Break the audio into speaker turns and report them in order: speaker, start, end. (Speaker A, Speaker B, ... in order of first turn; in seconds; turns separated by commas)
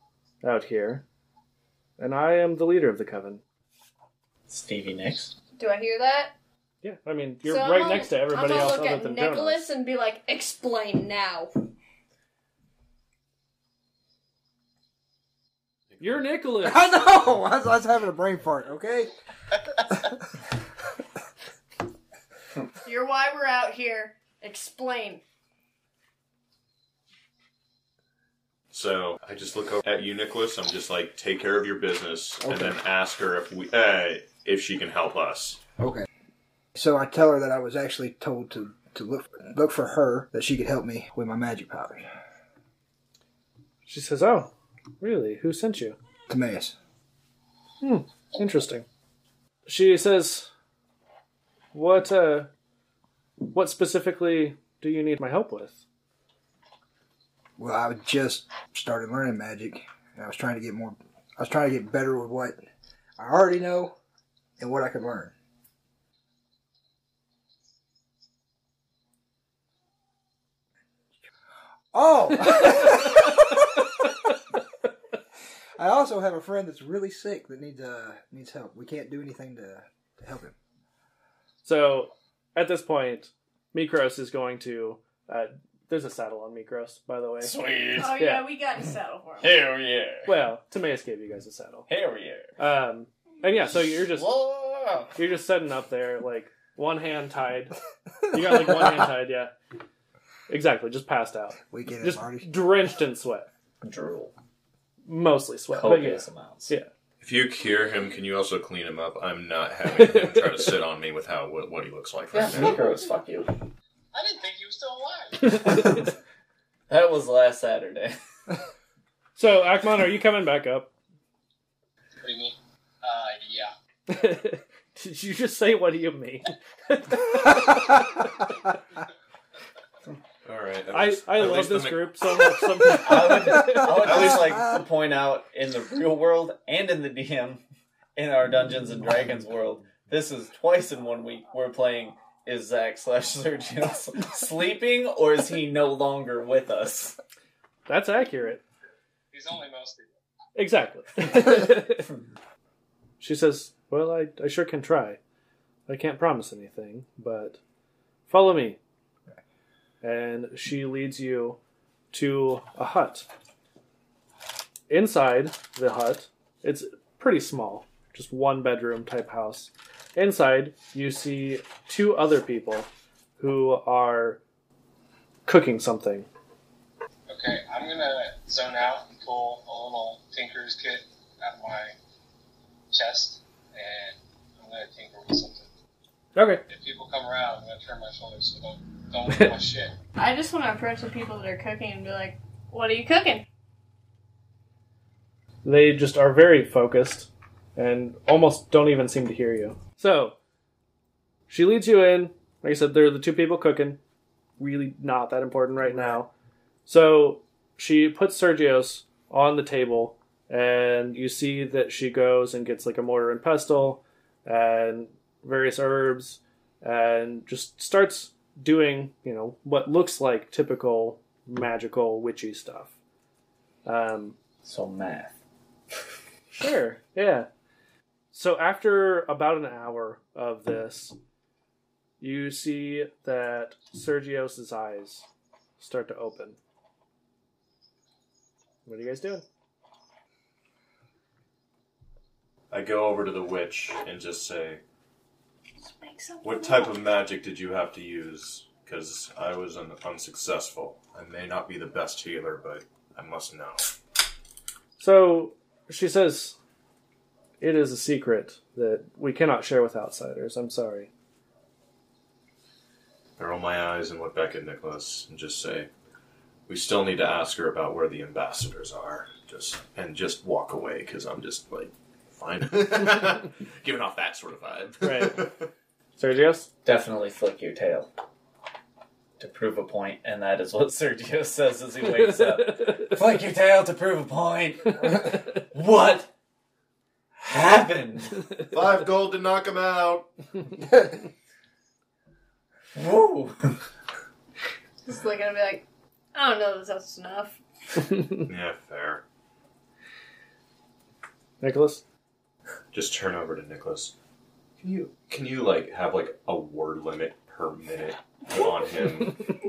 Speaker A: 0.4-1.0, Speaker A: 2.0-3.4, Speaker B: 4.5-5.3, Speaker C: 5.5-6.3, Speaker A: 6.8-9.7, Speaker C: 7.4-11.5, Speaker D: 15.9-16.2, Speaker A: 16.0-16.9, Speaker E: 16.6-19.1, Speaker C: 22.8-25.2, Speaker D: 28.7-35.6, Speaker E: 32.4-32.7, Speaker E: 35.8-36.1, Speaker E: 36.7-42.1, Speaker A: 43.8-46.0, Speaker E: 46.3-46.7, Speaker A: 47.8-48.9, Speaker A: 49.6-50.5, Speaker A: 51.7-52.5, Speaker A: 53.5-55.8, Speaker E: 57.6-62.6, Speaker E: 63.2-63.9, Speaker E: 64.6-65.3, Speaker E: 71.9-73.8, Speaker E: 75.8-80.5, Speaker A: 81.6-87.5, Speaker B: 87.4-88.2, Speaker C: 87.9-89.6, Speaker A: 88.1-88.5, Speaker B: 89.4-90.3, Speaker A: 90.2-91.9, Speaker B: 91.9-92.5, Speaker A: 92.6-94.3, Speaker B: 94.1-95.1, Speaker A: 95.1-97.7, Speaker A: 98.3-99.5, Speaker A: 100.5-103.5, Speaker E: 101.7-102.5, Speaker B: 103.8-104.3, Speaker A: 105.0-106.9, Speaker B: 105.7-106.7, Speaker D: 107.2-112.8, Speaker A: 109.9-110.7, Speaker B: 112.3-113.6, Speaker F: 114.1-115.6, Speaker A: 115.4-116.0, Speaker B: 116.9-118.2, Speaker A: 119.3-120.9, Speaker F: 122.2-123.7, Speaker A: 124.1-128.5, Speaker D: 130.4-132.5, Speaker A: 130.9-134.4, Speaker B: 133.0-137.6, Speaker D: 133.9-134.6, Speaker B: 138.2-147.2, Speaker A: 147.9-148.6, Speaker F: 149.3-150.1, Speaker A: 150.5-152.1, Speaker A: 153.2-155.2, Speaker A: 155.9-157.6, Speaker A: 158.3-158.8, Speaker A: 160.0-161.6, Speaker A: 162.1-163.3, Speaker A: 164.9-174.4, Speaker A: 175.5-176.3, Speaker F: 177.3-181.9, Speaker F: 182.9-185.7, Speaker A: 186.3-186.6, Speaker F: 186.7-189.9, Speaker A: 189.3-189.5, Speaker C: 190.2-193.4, Speaker A: 195.6-200.3, Speaker A: 201.5-204.0, Speaker A: 204.6-206.3, Speaker A: 206.8-222.9, Speaker A: 223.8-224.4, Speaker B: 224.6-225.4, Speaker A: 226.5-227.5, Speaker A: 228.3-231.2, Speaker A: 232.2-235.2, Speaker A: 235.8-236.6, Speaker A: 238.8-239.4, Speaker D: 242.7-244.8, Speaker C: 245.8-247.0, Speaker D: 246.4-253.9, Speaker A: 255.0-256.6, Speaker A: 257.6-261.1, Speaker D: 263.4-265.9, Speaker D: 266.7-275.7, Speaker A: 275.0-275.4, Speaker A: 276.2-276.7, Speaker B: 276.8-278.1, Speaker B: 279.4-286.3, Speaker A: 282.0-283.1, Speaker B: 287.4-288.5, Speaker D: 288.6-290.3, Speaker B: 292.9-293.7, Speaker C: 295.0-297.6, Speaker D: 298.3-299.2, Speaker A: 301.6-302.0, Speaker D: 302.9-304.1, Speaker D: 305.2-309.4